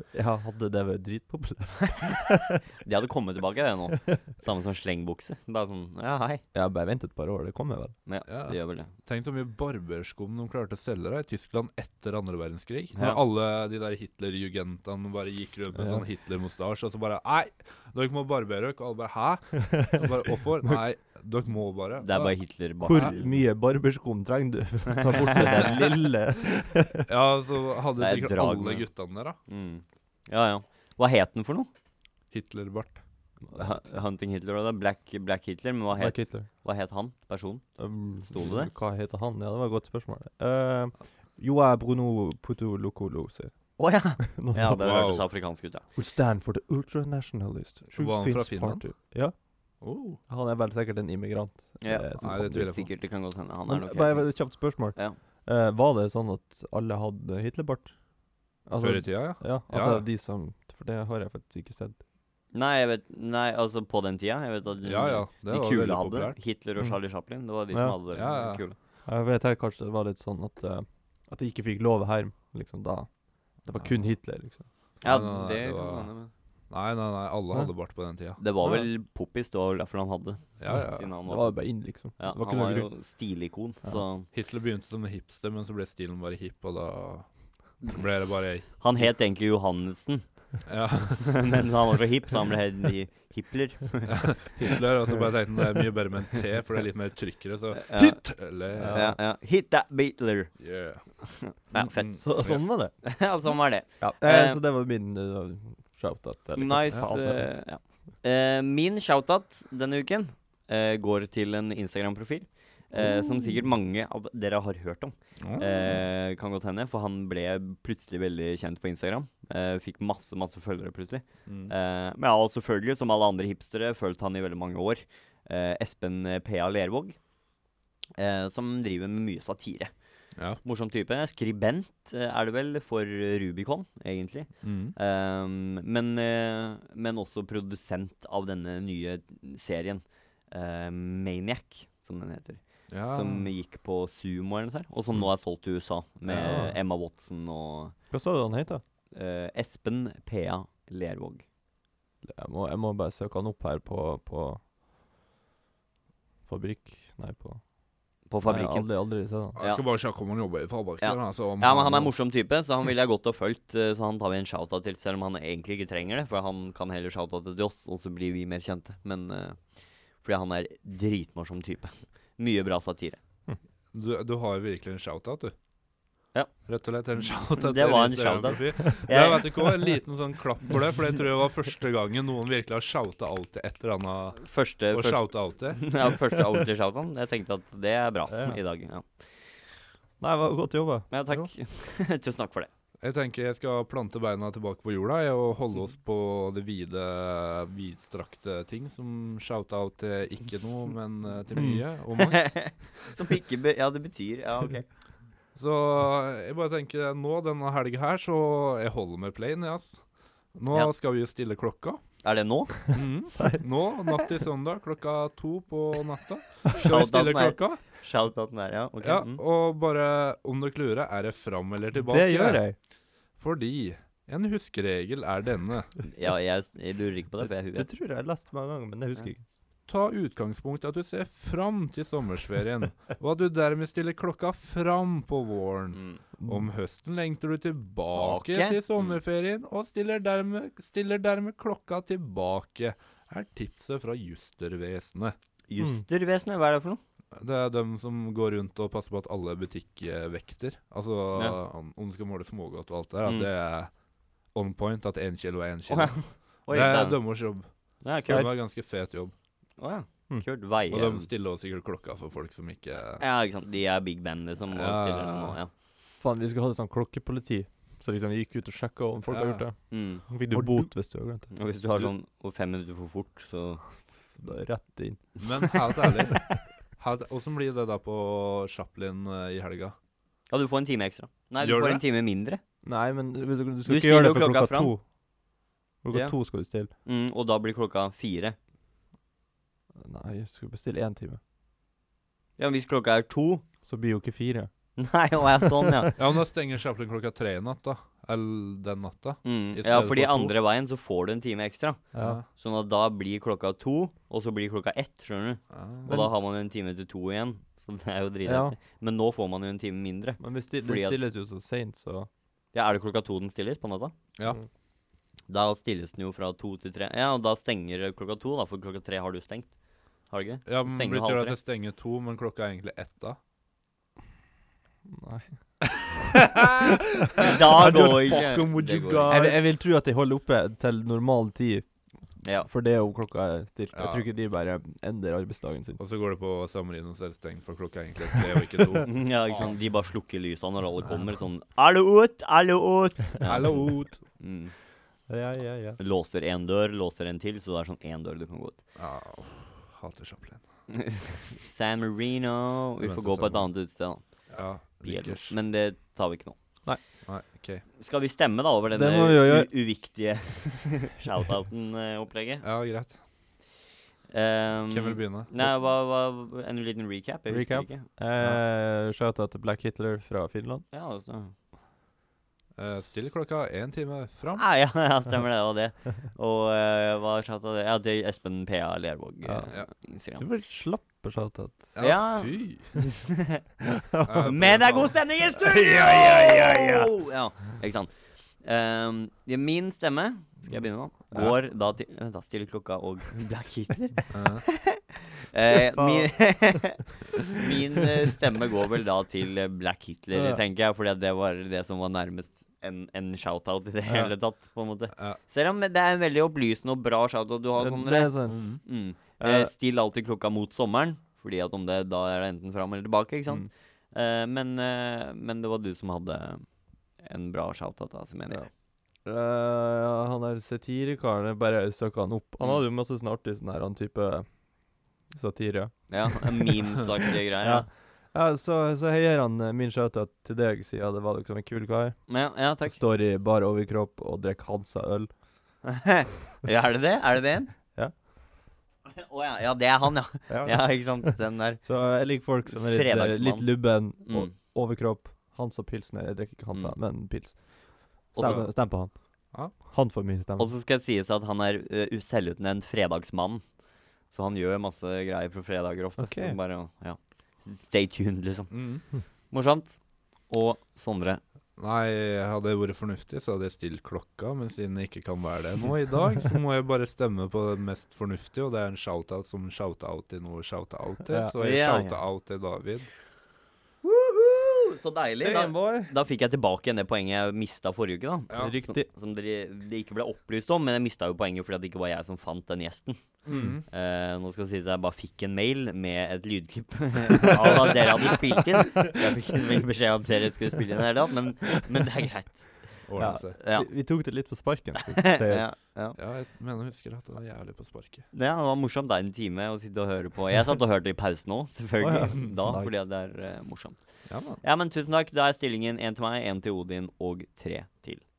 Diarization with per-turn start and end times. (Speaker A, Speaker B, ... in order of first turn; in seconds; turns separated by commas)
Speaker A: 0.1-2.6, Speaker B: 2.8-6.4, Speaker A: 6.5-8.0, Speaker B: 8.1-8.9, Speaker C: 8.2-22.4, Speaker B: 13.0-13.2, Speaker A: 15.8-16.0, Speaker B: 22.0-23.4, Speaker A: 22.8-27.1, Speaker B: 25.1-25.8, Speaker C: 27.1-29.4, Speaker B: 28.0-28.9, Speaker B: 29.5-31.7, Speaker C: 32.3-33.0, Speaker A: 33.5-33.8, Speaker B: 33.5-37.7, Speaker A: 35.9-36.5, Speaker A: 37.8-44.9, Speaker B: 38.2-38.7, Speaker B: 43.8-45.9, Speaker C: 44.6-45.2, Speaker A: 46.0-52.8, Speaker C: 47.9-48.9, Speaker C: 49.8-50.2, Speaker B: 51.8-55.2, Speaker C: 52.2-52.9, Speaker A: 53.7-58.0, Speaker A: 58.6-62.0, Speaker C: 58.8-60.1, Speaker B: 62.5-68.8, Speaker C: 64.8-66.4, Speaker C: 68.1-68.6, Speaker A: 69.1-74.7, Speaker B: 75.0-76.3, Speaker C: 75.0-76.1, Speaker C: 76.7-78.4, Speaker B: 78.4-84.3, Speaker A: 78.6-78.9, Speaker C: 80.6-81.1, Speaker A: 80.7-82.9, Speaker C: 84.3-87.3, Speaker C: 87.8-89.1, Speaker B: 88.8-90.6, Speaker C: 90.7-91.6, Speaker B: 91.2-94.8, Speaker C: 94.1-99.0, Speaker B: 97.8-100.5, Speaker A: 98.8-99.2, Speaker C: 100.6-102.6, Speaker B: 101.2-102.3, Speaker A: 102.2-103.0, Speaker B: 103.0-104.6, Speaker A: 104.0-107.5, Speaker B: 106.6-127.2, Speaker A: 113.0-113.5, Speaker C: 115.4-116.0, Speaker C: 121.5-121.7, Speaker B: 128.2-129.9, Speaker B: 130.6-147.9, Speaker C: 134.6-134.9, Speaker C: 142.9-143.5, Speaker C: 146.2-146.6, Speaker A: 146.3-146.8, Speaker A: 148.1-148.8, Speaker B: 149.1-151.4, Speaker A: 152.2-154.6, Speaker A: 156.5-157.6, Speaker B: 158.3-158.9, Speaker A: 158.4-159.6, Speaker C: 159.6-162.1, Speaker B: 159.6-159.8, Speaker B: 161.0-173.2, Speaker C: 173.9-175.5, Speaker C: 176.7-186.0, Speaker B: 177.6-179.9, Speaker B: 184.4-189.1, Speaker A: 188.3-188.6, Speaker A: 190.2-191.1, Speaker B: 191.1-192.7, Speaker C: 193.0-202.8, Speaker A: 201.5-201.8, Speaker B: 202.2-204.8, Speaker C: 205.6-210.0, Speaker C: 210.6-212.0, Speaker B: 212.2-212.9, Speaker C: 212.9-217.8, Speaker A: 213.3-213.6, Speaker B: 216.8-219.4, Speaker C: 219.0-222.6, Speaker A: 222.0-222.8, Speaker C: 223.4-225.9, Speaker B: 226.1-227.9, Speaker A: 227.4-229.4, Speaker C: 229.9-245.3, Speaker B: 235.9-236.2, Speaker A: 236.4-236.7, Speaker B: 238.1-239.2, Speaker B: 245.7-247.0, Speaker A: 245.8-246.0, Speaker C: 247.4-253.9, Speaker C: 254.5-259.3, Speaker B: 255.9-257.2, Speaker B: 258.0-258.5, Speaker B: 259.8-261.3, Speaker C: 260.9-263.2, Speaker B: 263.2-265.7, Speaker C: 264.7-265.6, Speaker A: 266.2-271.5, Speaker C: 269.3-269.6, Speaker B: 269.9-270.3, Speaker C: 270.5-270.9, Speaker B: 271.5-273.9, Speaker A: 274.4-276.6, Speaker C: 275.4-279.9, Speaker B: 280.5-282.6, Speaker C: 281.6-282.0, Speaker A: 282.8-285.0, Speaker B: 283.9-284.9, Speaker A: 286.0-286.9, Speaker B: 287.0-288.6, Speaker A: 290.0-291.4, Speaker B: 292.6-293.6, Speaker A: 293.8-294.7, Speaker B: 295.0-296.2, Speaker C: 296.2-300.5, Speaker B: 299.4-311.2, Speaker A: 302.1-302.4, Speaker C: 302.2-302.4, Speaker C: 305.7-306.2, Speaker A: 306.1-306.3, Speaker A: 308.4-308.8, Speaker A: 310.4-312.3, Speaker B: 312.7-314.1, Speaker B: 315.5-319.8, Speaker B: 320.3-321.6, Speaker C: 320.7-323.4, Speaker A: 325.1-325.5, Speaker C: 326.2-329.6, Speaker B: 327.4-329.3, Speaker A: 329.3-331.9, Speaker A: 332.6-336.0, Speaker C: 333.9-334.3, Speaker C: 336.0-339.8, Speaker B: 339.1-344.7, Speaker C: 343.4-344.2, Speaker A: 345.3-346.0, Speaker B: 346.0-348.8, Speaker C: 349.0-350.6, Speaker B: 350.9-354.4, Speaker C: 353.0-353.7, Speaker C: 354.5-355.5, Speaker B: 355.0-356.6, Speaker C: 357.2-357.9, Speaker B: 358.0-362.6, Speaker A: 358.9-359.7, Speaker C: 362.6-363.2, Speaker B: 364.3-368.1, Speaker C: 364.9-365.5, Speaker A: 367.5-370.9, Speaker B: 370.9-371.5, Speaker C: 372.8-374.6, Speaker B: 374.6-380.4, Speaker A: 379.4-379.8, Speaker A: 380.4-381.9, Speaker C: 381.9-383.0, Speaker B: 382.0-383.6, Speaker A: 383.8-384.7, Speaker C: 384.2-385.2, Speaker B: 384.4-388.1, Speaker A: 385.5-387.1, Speaker B: 388.6-416.7, Speaker C: 391.3-391.6, Speaker C: 394.3-394.6, Speaker A: 395.7-396.9, Speaker A: 400.3-400.6, Speaker A: 404.1-404.3, Speaker A: 407.8-408.8, Speaker C: 408.5-408.8, Speaker A: 409.4-409.7, Speaker B: 417.2-418.6, Speaker A: 419.2-424.6, Speaker A: 425.3-426.8, Speaker B: 426.1-427.9, Speaker A: 427.6-435.3, Speaker B: 432.3-433.0, Speaker B: 435.8-437.7, Speaker B: 439.1-441.9, Speaker A: 440.5-450.7, Speaker B: 442.7-444.5, Speaker B: 448.3-448.7, Speaker C: 448.4-448.8, Speaker B: 450.6-453.6, Speaker B: 454.3-458.8, Speaker A: 456.2-456.6, Speaker C: 458.7-459.0, Speaker B: 459.5-461.4, Speaker C: 461.8-473.1, Speaker A: 471.2-471.5, Speaker B: 471.6-472.2, Speaker B: 474.0-483.2, Speaker A: 475.4-476.1, Speaker C: 478.5-478.8, Speaker A: 478.5-479.1, Speaker C: 483.5-483.9, Speaker A: 483.5-483.8, Speaker B: 483.9-493.0, Speaker C: 493.1-493.6, Speaker A: 493.2-495.7, Speaker B: 493.6-493.9, Speaker B: 495.3-496.2, Speaker C: 496.1-498.3, Speaker B: 498.3-504.0, Speaker A: 502.0-503.0, Speaker C: 504.3-504.6, Speaker B: 504.6-508.2